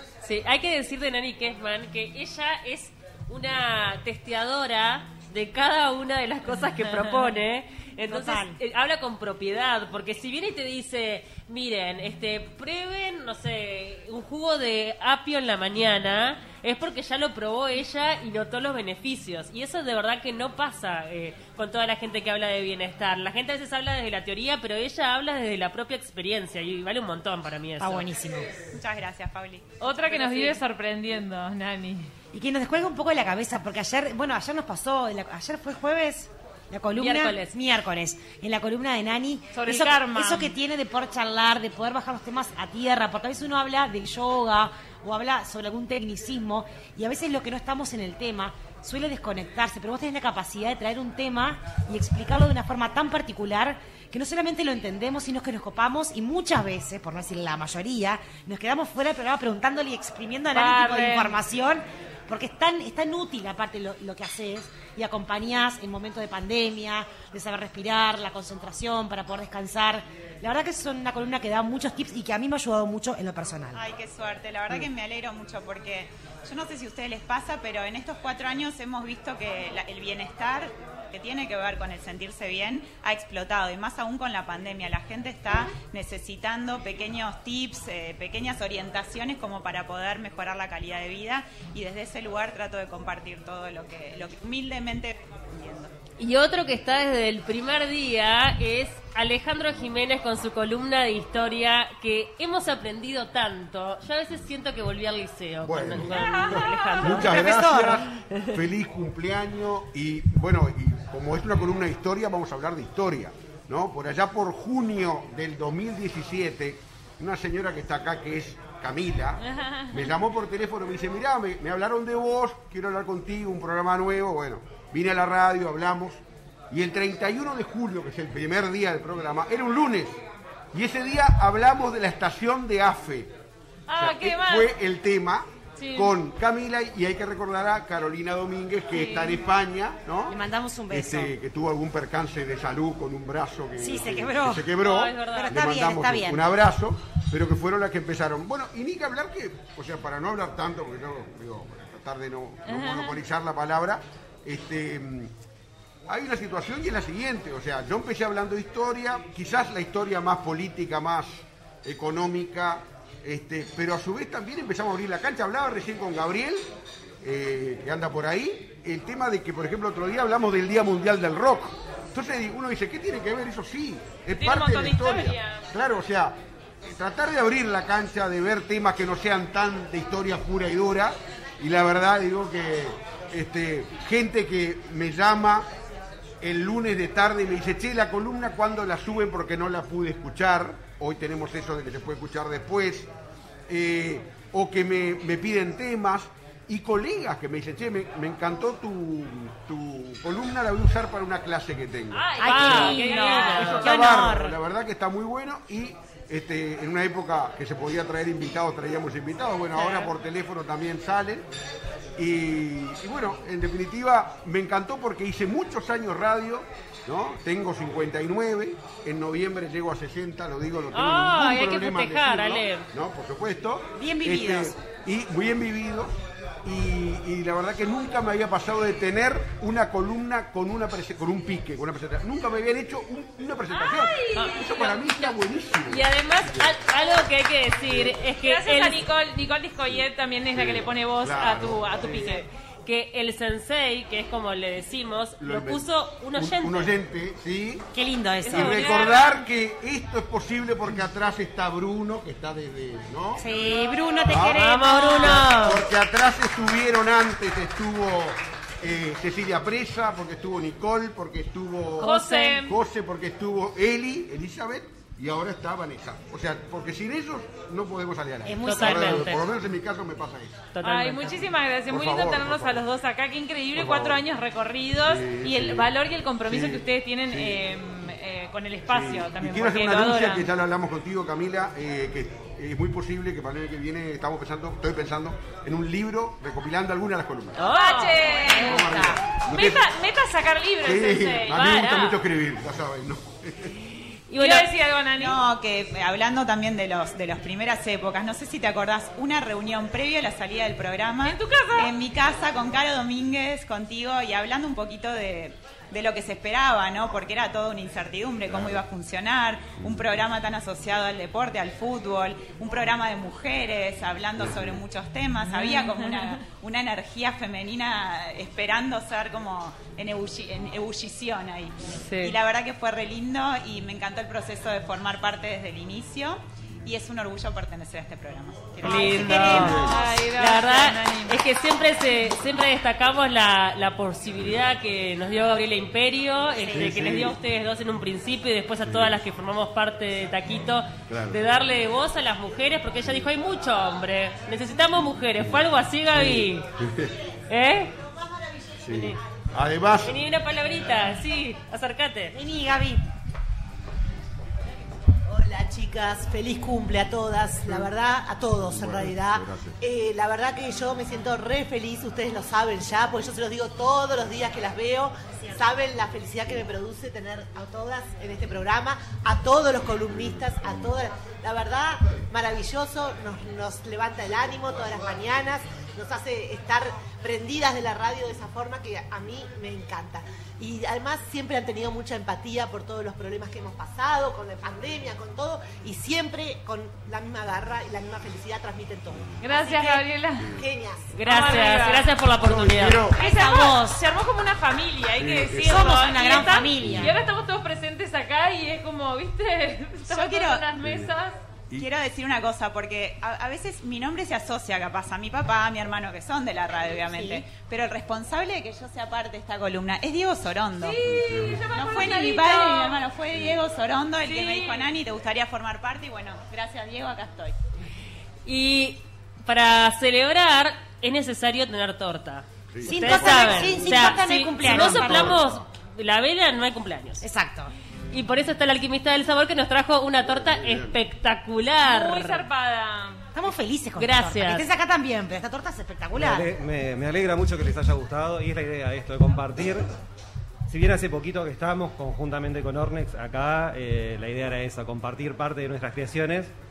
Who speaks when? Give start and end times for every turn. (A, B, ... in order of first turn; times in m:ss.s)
0:00.2-0:28.1 A
0:08.1-0:08.6 B
0:27.8-0:28.5 B
0:28.7-0:29.7 C
0:29.8-0:32.1 D
0:30.2-0:30.6 C
0:32.3-1:13.8 B
0:37.0-0:37.5 A
0:39.6-0:40.6 D
1:00.5-1:01.4 D
1:13.7-1:35.9 C
1:36.2-1:47.5 A
1:45.6-1:59.4 E
1:46.1-1:47.0 D
1:47.1-1:48.0 B
1:59.5-2:00.1 D
1:59.9-2:06.2 E
2:06.7-2:10.2 E
2:10.7-2:13.3 E
2:13.9-2:14.8 D
2:14.0-2:20.4 E
2:15.8-2:16.2 D
2:18.9-2:19.5 D
2:20.3-2:21.3 B
2:20.9-2:35.3 E
2:23.8-2:26.4 B
2:24.8-2:25.5 A
2:32.7-2:33.2 D
2:36.1-2:46.7 E
2:47.2-3:05.7 E
2:54.4-2:55.6 D
3:06.4-3:13.1 E
3:13.7-3:23.0 E
3:22.1-3:23.9 D
3:22.2-3:23.9 A
3:22.4-3:24.6 B
3:23.5-3:31.5 E
3:29.8-3:30.1 B
3:32.2-3:56.8 E
3:40.9-3:42.9 A
3:44.0-3:44.7 B
3:53.7-3:55.3 D
3:55.9-3:59.0 A
3:58.4-4:02.5 D
4:00.5-4:02.4 E
4:02.9-4:06.9 A
4:05.4-4:07.8 E
4:08.0-4:09.1 B
4:08.5-4:09.3 A
4:08.5-4:13.4 E
4:08.6-4:09.4 D
4:13.4-4:15.5 B
4:14.3-4:14.6 E
4:14.5-4:15.8 A
4:15.2-4:30.6 E
4:22.0-4:22.8 D
4:28.4-4:29.4 B
4:28.6-4:29.4 A
4:30.7-4:31.3 A
4:30.8-4:40.5 D
4:31.9-4:32.8 E
4:33.7-4:34.2 E
4:35.0-4:37.6 E
4:38.8-4:47.6 E
4:47.6-4:48.5 A
4:47.6-4:52.1 D
4:48.4-4:49.2 B
4:48.6-4:49.9 E
4:50.8-4:53.7 E
4:51.6-4:52.1 A
4:54.3-4:54.7 A
4:54.4-4:55.4 D
4:55.2-5:30.0 C
5:01.2-5:02.0 D
5:15.5-5:16.4 D
5:21.9-5:22.4 A
5:28.8-5:46.7 A
5:28.9-5:31.4 D
5:29.3-5:29.7 B
5:36.6-5:37.1 B
5:36.7-5:37.4 E
5:38.9-5:39.1 E
5:41.1-5:41.4 E
5:46.2-5:47.1 E
5:47.5-5:47.9 A
5:48.8-5:50.2 E
5:48.9-5:49.2 A
5:50.0-5:52.3 A
5:52.3-5:53.0 B
5:55.3-6:30.0 F
5:58.8-5:59.7 E
6:29.4-6:30.5 D
6:30.5-6:31.1 F
6:31.1-6:33.1 A
6:31.2-6:32.2 D
6:32.4-6:33.2 E
6:33.1-6:41.4 D
6:33.2-6:34.0 B
6:35.2-6:35.9 E
6:35.6-6:37.1 B
6:40.1-6:40.6 C
6:40.8-6:41.1 E
6:41.7-6:51.0 C
6:47.1-6:47.4 B
6:50.8-6:53.1 D
6:51.2-6:51.6 E
6:51.7-6:57.5 C
6:54.2-6:54.9 D
6:58.5-7:07.2 A
7:02.7-7:03.5 E
7:02.9-7:05.4 B
7:04.7-7:05.6 E
7:07.2-7:07.7 B
7:08.1-7:12.4 A
7:10.3-7:10.9 E
7:11.8-7:13.2 D
7:13.4-7:16.5 B
7:14.0-7:14.6 A
7:16.2-7:19.9 G
7:20.7-7:26.5 G